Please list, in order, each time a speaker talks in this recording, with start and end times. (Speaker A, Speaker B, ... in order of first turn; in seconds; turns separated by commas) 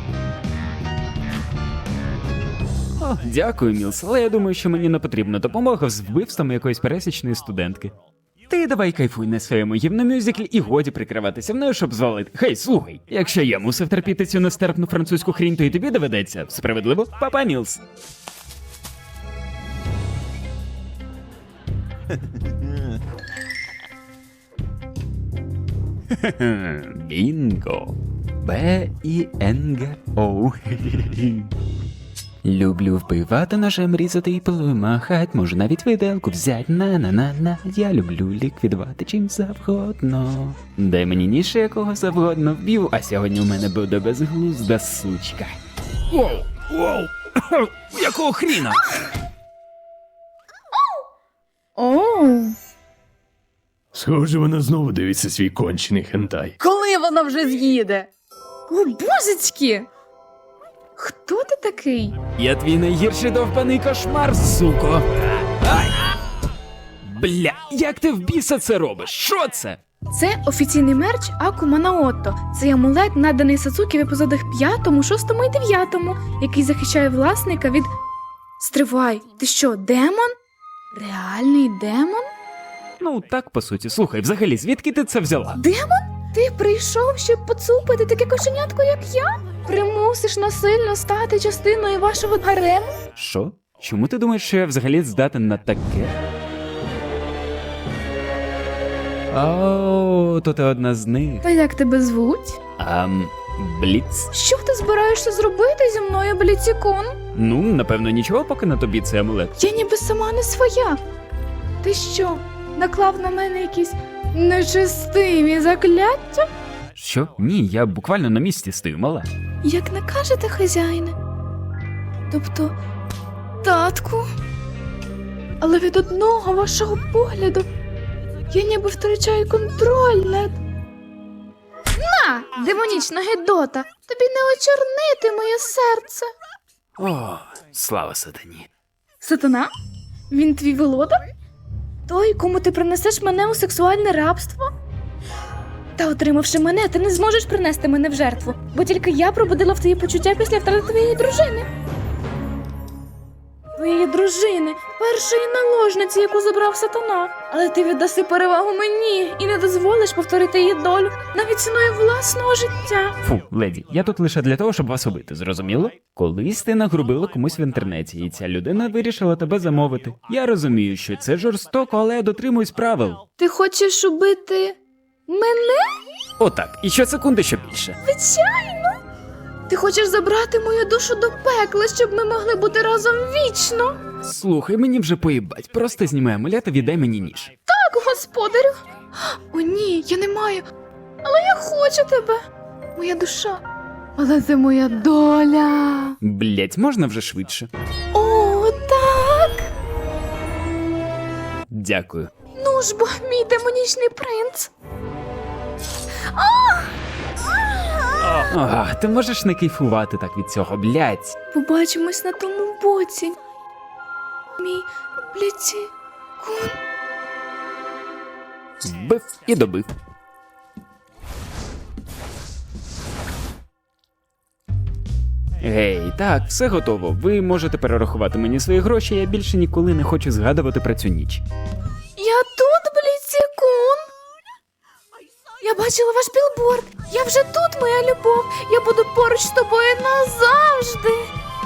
Speaker A: 3.0-7.9, Speaker A: 8.5-17.8, Speaker A: 26.1-31.5, Speaker A: 32.4-45.5, Speaker A: 46.1-48.8, Speaker B: 51.8-52.5, Speaker C: 53.9-56.5, Speaker B: 56.6-58.1, Speaker B: 58.7-59.9, Speaker B: 61.0-62.2, Speaker A: 62.3-66.1, Speaker A: 67.0-69.8, Speaker B: 70.1-77.9, Speaker B: 78.6-80.3, Speaker B: 80.9-82.3, Speaker A: 83.0-85.6, Speaker B: 85.5-93.0, Speaker A: 93.1-96.1, Speaker A: 99.3-101.4, Speaker B: 101.4-102.6, Speaker A: 102.8-104.3, Speaker B: 104.3-107.2, Speaker A: 107.3-109.5, Speaker B: 109.6-111.0, Speaker B: 111.8-116.5, Speaker A: 117.0-119.3, Speaker B: 119.6-121.1, Speaker B: 122.3-122.7, Speaker B: 123.6-124.2, Speaker B: 125.6-127.7, Speaker B: 128.5-130.6, Speaker B: 131.9-136.3, Speaker A: 137.0-138.7, Speaker B: 139.2-139.7, Speaker B: 140.3-141.2, Speaker B: 142.1-144.7, Speaker B: 145.9-151.7, Speaker B: 153.7-163.2, Speaker A: 163.2-173.2, Speaker B: 173.4-175.9, Speaker A: 176.4-177.9, Speaker B: 178.0-179.0, Speaker B: 179.7-184.0, Speaker A: 184.2-187.5, Speaker B: 187.7-190.6, Speaker B: 191.2-192.4, Speaker B: 192.9-193.6, Speaker B: 194.2-196.2, Speaker A: 196.2-197.7, Speaker B: 198.1-199.7, Speaker A: 201.7-202.3, Speaker B: 202.5-204.7, Speaker B: 206.3-206.9, Speaker A: 208.4-211.3, Speaker B: 211.5-213.3, Speaker B: 214.6-216.8, Speaker A: 218.8-219.9, Speaker A: 225.6-231.4, Speaker B: 232.2-234.0, Speaker B: 235.6-241.3